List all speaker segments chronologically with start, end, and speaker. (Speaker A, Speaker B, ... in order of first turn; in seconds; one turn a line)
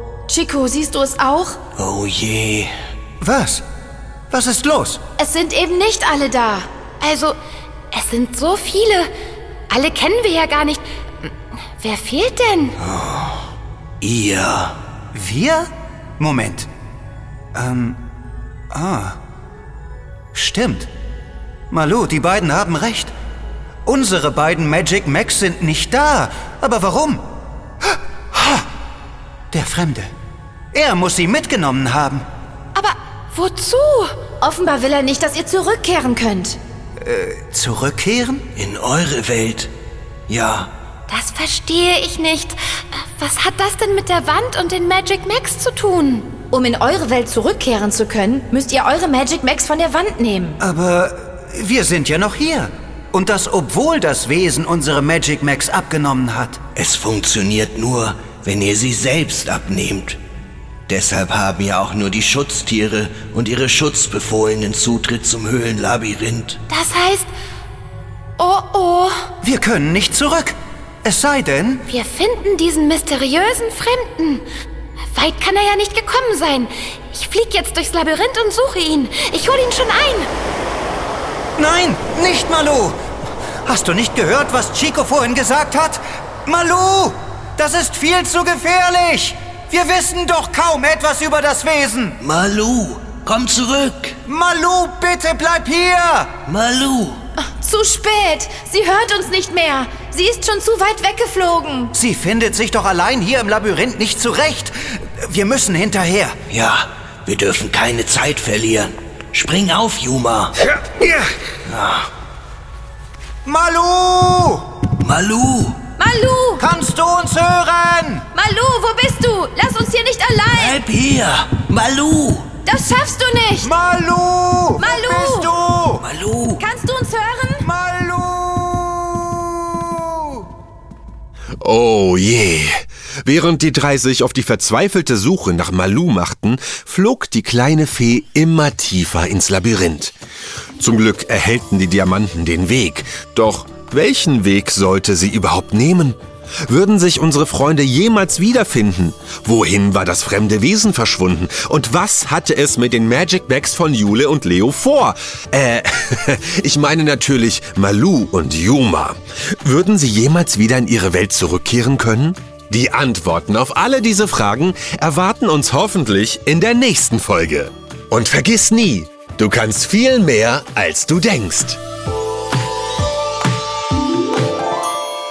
Speaker A: 0.3-1.6
Speaker B: 1.8-2.7
Speaker C: 3.2-3.6
Speaker C: 4.3-5.0
Speaker A: 5.2-6.7
Speaker D: 7.0-7.4
Speaker D: 7.9-9.1
Speaker D: 9.7-12.8
Speaker B: 12.8-13.5
Speaker B: 14.0-14.8
Speaker C: 15.1-16.7
Speaker C: 17.5-18.0
Speaker C: 18.7-19.2
Speaker C: 20.3-20.9
Speaker C: 21.7-23.1
Speaker C: 23.8-27.2
Speaker C: 28.3-28.6
Speaker C: 29.5-30.1
Speaker C: 30.7-32.2
Speaker D: 32.8-34.2
Speaker A: 34.4-36.6
Speaker C: 37.0-38.5
Speaker B: 38.5-39.7
Speaker B: 40.3-40.7
Speaker D: 41.1-46.3
Speaker A: 46.5-50.6
Speaker C: 50.6-56.6
Speaker B: 56.8-60.2
Speaker B: 60.9-66.6
Speaker D: 66.7-67.3
Speaker D: 68.4-69.3
Speaker C: 69.4-71.8
Speaker D: 71.9-74.4
Speaker D: 75.1-80.3
Speaker C: 81.6-83.0
Speaker C: 83.6-92.2
Speaker B: 92.2-94.2
Speaker C: 94.2-96.3
Speaker B: 96.5-97.2
Speaker A: 97.4-101.9
Speaker C: 101.9-106.3
Speaker B: 106.5-110.5
Speaker C: 110.6-111.3
Speaker B: 111.6-112.1
Speaker C: 113.4-114.6
Speaker B: 115.0-115.8
Speaker A: 116.0-116.7
Speaker C: 116.6-118.2
Speaker A: 118.3-120.8
Speaker B: 120.5-122.5
Speaker A: 122.6-123.7
Speaker C: 123.6-126.0
Speaker A: 124.8-125.5
Speaker B: 126.0-126.6
Speaker A: 126.6-127.7
Speaker C: 127.6-130.4
Speaker E: 131.6-140.1
Speaker E: 140.8-171.8